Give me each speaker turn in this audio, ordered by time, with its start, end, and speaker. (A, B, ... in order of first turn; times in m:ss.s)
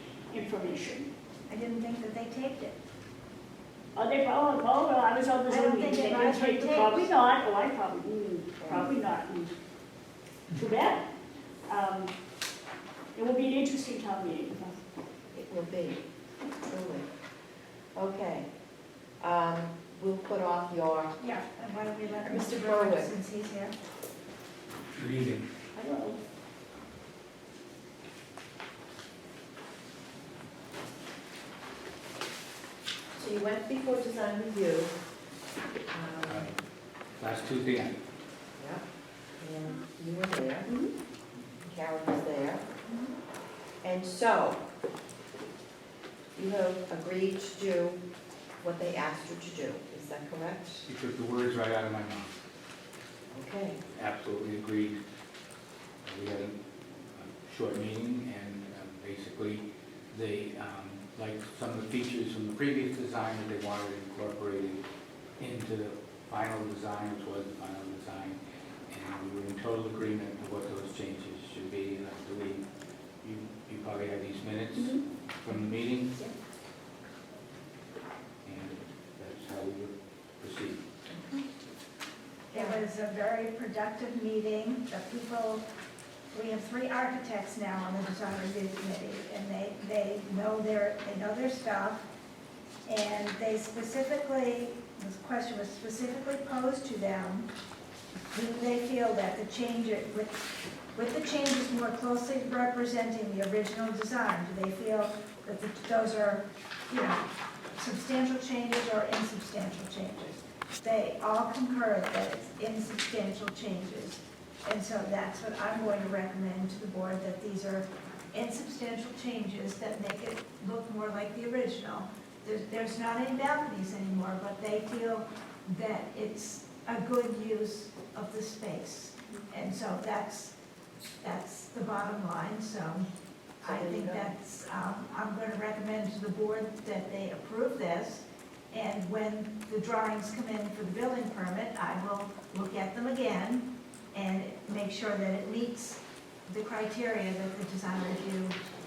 0:00.3-0:01.1 A
0:01.5-0:02.8 B
0:04.0-0:09.5 A
0:05.5-0:07.1 B
0:08.6-0:08.9 C
0:10.6-0:11.0 A
0:11.7-0:12.1 A
0:13.2-0:14.8 A
0:15.3-0:16.0 C
0:16.7-0:17.1 C
0:18.0-0:18.5 C
0:19.2-0:21.2 C
0:21.2-0:23.7 B
0:22.2-0:23.1 C
0:25.0-0:25.4 D
0:25.8-0:26.2 A
0:33.2-0:34.9 C
0:35.9-0:36.4 C
0:36.3-0:36.6 D
0:37.2-0:38.0 D
0:39.4-0:40.7 C
0:40.7-0:40.9 A
0:41.6-0:42.7 C
0:43.8-0:44.6 C
0:46.4-0:48.0 C
0:48.6-0:50.9 C
0:50.9-0:52.4 D
0:53.3-0:53.8 C
0:53.9-0:55.0 D
0:56.0-0:56.6 D
0:57.2-1:04.8 D
1:05.4-1:08.4 D
1:08.9-1:12.6 D
1:13.2-1:16.2 D
1:18.4-1:20.8 D
1:21.1-1:21.4 C
1:22.5-1:22.8 C
1:22.5-1:25.6 B
1:26.3-1:32.1 B
1:32.9-1:37.5 B
1:38.3-2:10.5 B
2:11.2-2:13.1 B
2:13.6-2:14.3 C
2:13.6-2:28.6 B